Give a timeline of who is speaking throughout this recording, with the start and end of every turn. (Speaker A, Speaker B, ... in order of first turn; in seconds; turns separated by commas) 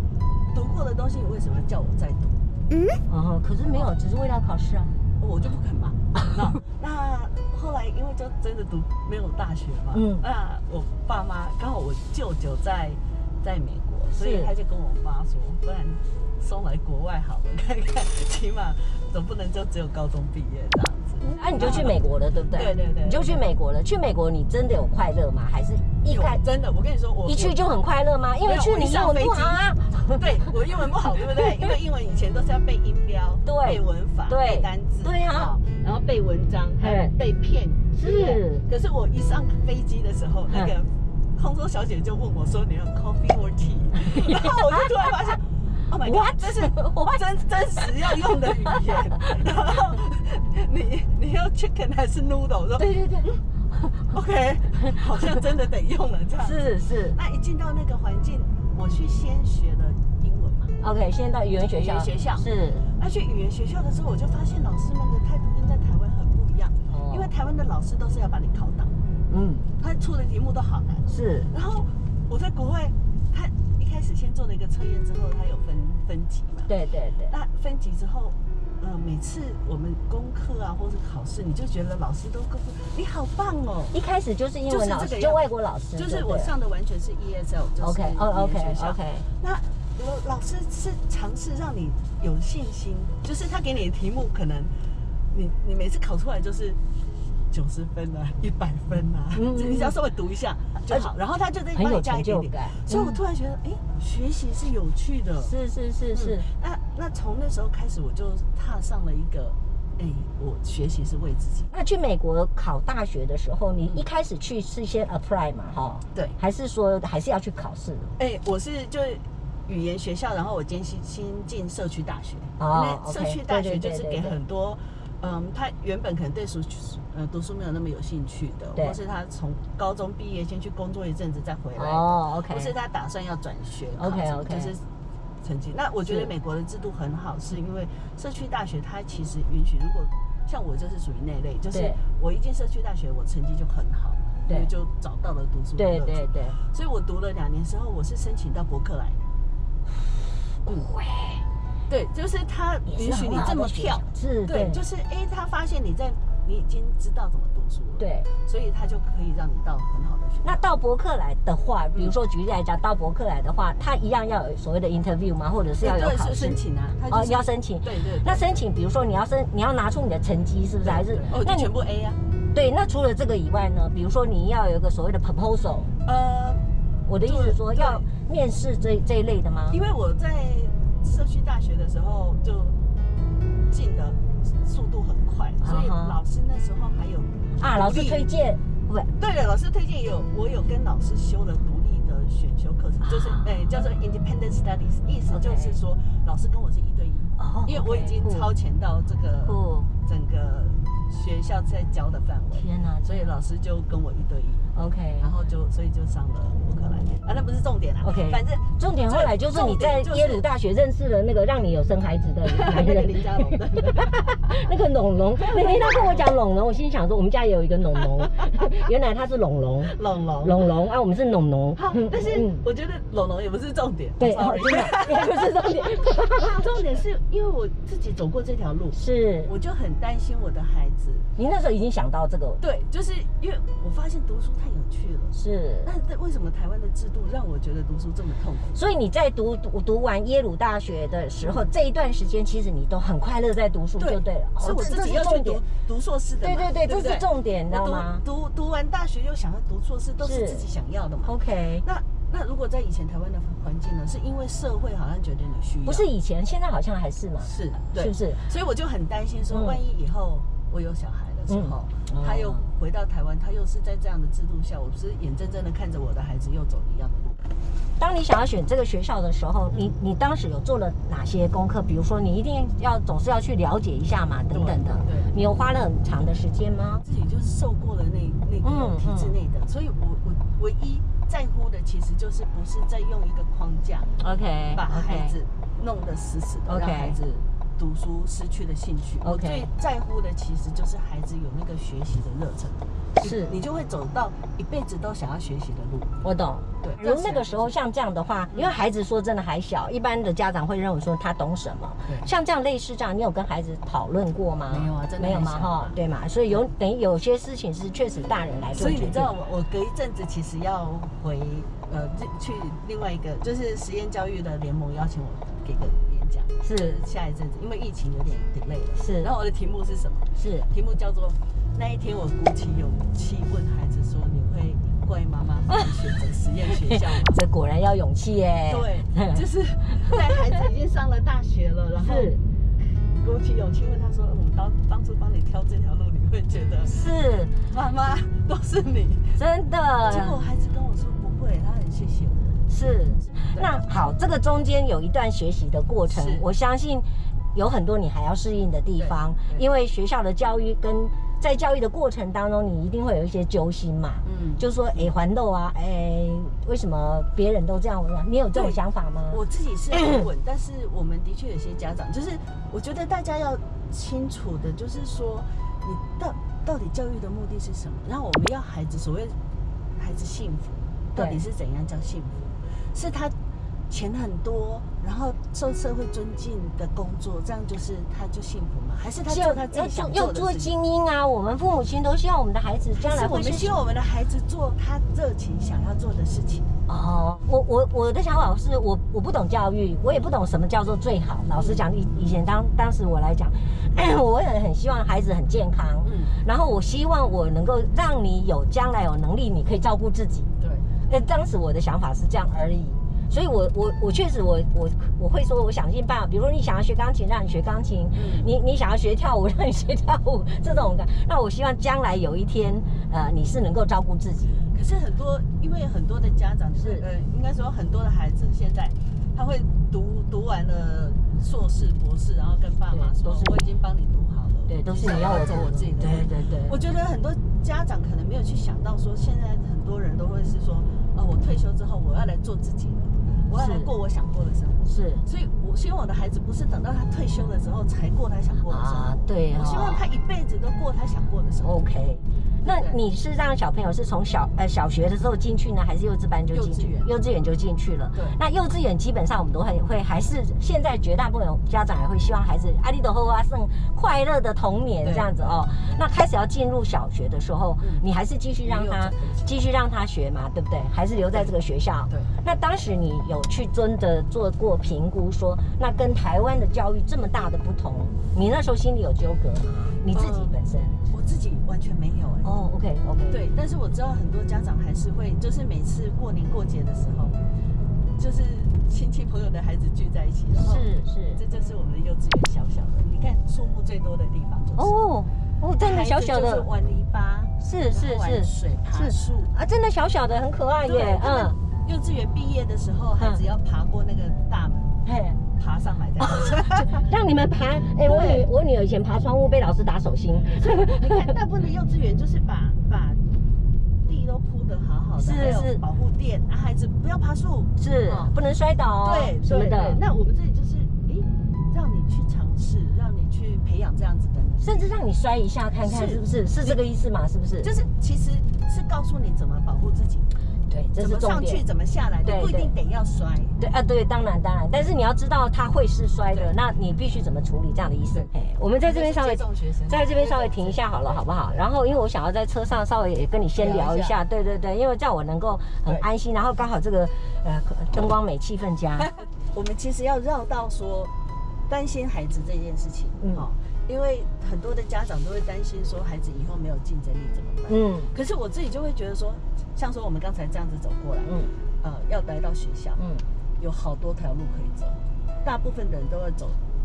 Speaker A: 0.5-2.4, Speaker B: 3.0-5.0, Speaker A: 5.2-23.4, Speaker B: 9.9-10.2, Speaker B: 14.1-14.5, Speaker B: 21.2-26.4, Speaker A: 26.1-27.6, Speaker B: 27.3-30.5, Speaker A: 28.4-53.4, Speaker B: 31.1-31.7, Speaker B: 33.5-35.5, Speaker B: 36.8-37.1, Speaker B: 38.0-38.6, Speaker B: 44.1-44.8, Speaker B: 46.0-48.8, Speaker B: 52.8-53.9, Speaker A: 54.1-56.6, Speaker B: 56.4-57.2, Speaker A: 57.1-60.8, Speaker B: 60.8-62.9, Speaker A: 61.7-69.0, Speaker B: 66.9-67.3, Speaker B: 69.3-69.7, Speaker A: 69.8-76.7, Speaker B: 71.1-71.5, Speaker B: 76.7-77.3, Speaker A: 77.3-84.0, Speaker B: 83.9-86.5, Speaker A: 84.7-94.7, Speaker B: 87.8-89.3, Speaker A: 95.3-96.8, Speaker A: 97.5-105.5, Speaker B: 99.3-100.0, Speaker B: 101.8-103.2, Speaker B: 105.4-106.5, Speaker A: 106.1-111.7, Speaker B: 111.7-118.1, Speaker A: 118.2-134.8, Speaker B: 122.6-124.4, Speaker B: 131.8-132.7, Speaker B: 134.0-134.7, Speaker A: 135.4-149.2, Speaker B: 136.1-136.3, Speaker B: 141.7-142.0, Speaker B: 145.8-146.6, Speaker B: 150.6-151.4, Speaker A: 151.9-160.7, Speaker B: 152.9-154.8, Speaker B: 158.0-158.3, Speaker B: 160.4-171.7, Speaker A: 165.8-168.6, Speaker A: 170.8-172.2, Speaker B: 172.5-175.9, Speaker A: 176.1-176.6, Speaker B: 177.1-179.8, Speaker A: 177.2-178.1, Speaker A: 179.7-182.8, Speaker A: 183.7-188.3, Speaker B: 185.6-186.2, Speaker B: 187.6-189.1, Speaker A: 189.2-210.4, Speaker B: 193.1-193.6, Speaker B: 195.3-195.8, Speaker B: 197.4-198.5, Speaker B: 199.4-199.9, Speaker B: 202.6-203.3, Speaker B: 204.8-205.3, Speaker B: 208.0-222.6, Speaker A: 212.5-214.7, Speaker A: 215.4-216.3, Speaker A: 218.2-218.6, Speaker A: 219.9-220.7, Speaker A: 221.8-231.3, Speaker B: 224.2-226.7, Speaker B: 228.9-229.5, Speaker B: 231.4-232.6, Speaker A: 232.6-238.8, Speaker B: 235.3-235.9, Speaker B: 238.8-245.6, Speaker A: 244.0-256.1, Speaker B: 246.4-248.2, Speaker B: 250.2-250.7, Speaker B: 251.2-251.8, Speaker B: 255.9-258.4, Speaker A: 257.4-267.4, Speaker B: 259.5-259.8, Speaker B: 261.5-262.6, Speaker B: 268.0-277.0, Speaker A: 274.5-275.3, Speaker A: 277.0-284.1, Speaker B: 278.6-279.4, Speaker B: 284.2-285.4, Speaker A: 284.7-296.1, Speaker B: 286.7-287.2, Speaker B: 289.2-289.7, Speaker B: 293.2-293.6, Speaker B: 296.2-309.3, Speaker A: 296.8-297.7, Speaker A: 304.7-306.0, Speaker A: 308.8-327.4, Speaker B: 316.6-317.0, Speaker B: 319.0-319.3, Speaker B: 320.4-320.7, Speaker B: 326.9-329.4, Speaker A: 328.7-336.9, Speaker B: 332.0-332.4, Speaker B: 336.9-337.6, Speaker A: 337.7-339.4, Speaker B: 339.4-340.4, Speaker A: 340.0-342.7, Speaker B: 342.7-359.4, Speaker A: 343.2-343.8, Speaker A: 346.1-346.5, Speaker A: 349.0-349.6, Speaker A: 354.2-355.1, Speaker A: 358.5-369.4, Speaker B: 359.9-360.3, Speaker A: 370.0-373.3, Speaker A: 373.9-380.7, Speaker B: 379.3-383.8, Speaker A: 383.0-386.7, Speaker B: 386.9-400.5, Speaker A: 391.6-391.8, Speaker A: 396.0-396.4, Speaker A: 400.6-400.9, Speaker B: 401.1-414.7, Speaker A: 408.1-408.5, Speaker A: 414.7-441.8, Speaker B: 416.8-417.1, Speaker B: 422.9-423.6, Speaker B: 424.7-426.8, Speaker B: 433.5-433.9, Speaker B: 434.9-435.2, Speaker B: 438.7-440.1, Speaker B: 441.6-471.1, Speaker A: 442.6-443.0, Speaker A: 446.5-447.1, Speaker A: 455.0-456.0, Speaker A: 457.8-458.1, Speaker A: 458.6-459.5, Speaker A: 470.1-470.5, Speaker A: 471.1-472.5, Speaker B: 472.4-473.4, Speaker A: 473.3-477.4, Speaker A: 478.2-485.0, Speaker B: 480.6-481.4, Speaker B: 484.8-486.7, Speaker A: 485.8-489.5, Speaker B: 487.6-491.6, Speaker A: 490.8-494.9, Speaker B: 495.1-495.4, Speaker A: 495.6-497.0, Speaker B: 496.2-501.3, Speaker A: 498.1-498.4, Speaker A: 500.5-503.2, Speaker A: 504.0-508.3, Speaker B: 505.2-505.8, Speaker B: 507.8-510.0, Speaker A: 509.0-514.8, Speaker B: 514.6-517.7, Speaker A: 515.9-516.8, Speaker A: 517.6-520.3, Speaker B: 520.7-521.6, Speaker A: 521.0-523.6, Speaker B: 522.2-522.7, Speaker B: 523.6-539.1, Speaker A: 528.8-531.6, Speaker A: 533.6-534.2, Speaker A: 539.5-541.1, Speaker A: 541.7-553.0, Speaker B: 547.7-548.1, Speaker B: 551.3-551.5, Speaker B: 553.0-553.2, Speaker A: 553.6-556.6